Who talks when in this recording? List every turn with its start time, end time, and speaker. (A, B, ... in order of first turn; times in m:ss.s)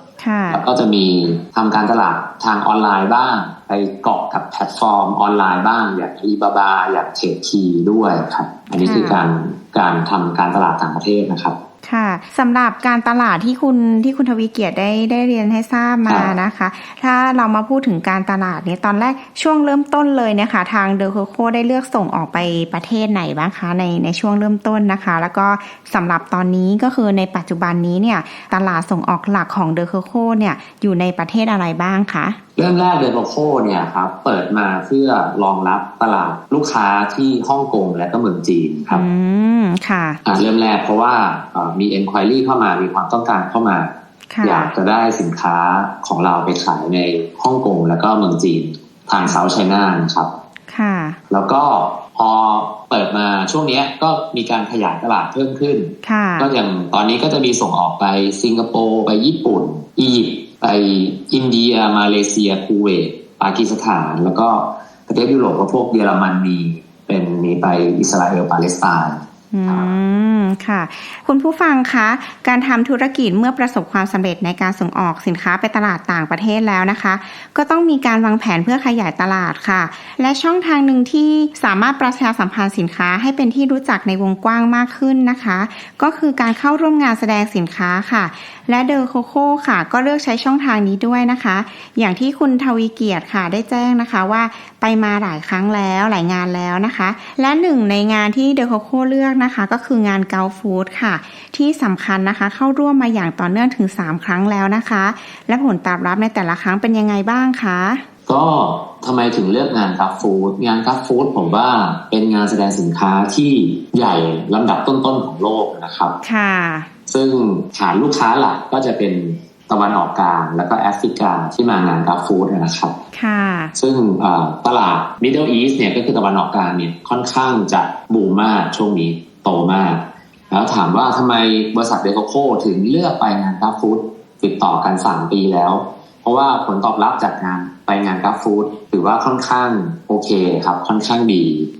0:00.2-0:00.6 A
0:00.5-0:11.6 B
0:08.7-0:09.2 A
0:11.8-0:32.4 A
0:16.1-0:16.4 B
0:32.6-0:39.0 B
0:38.9-0:40.2 A
0:40.2-0:43.9 B
0:44.3-0:44.7 A
0:44.4-0:50.3 B
0:50.7-0:51.2 A
0:51.3-1:09.9 B
0:56.0-0:56.5 A
1:09.5-1:48.0 A
1:48.3-1:56.2 B
1:56.2-1:56.9 A
1:57.1-2:03.0 B
2:03.1-2:03.7 A
2:03.8-2:21.7 B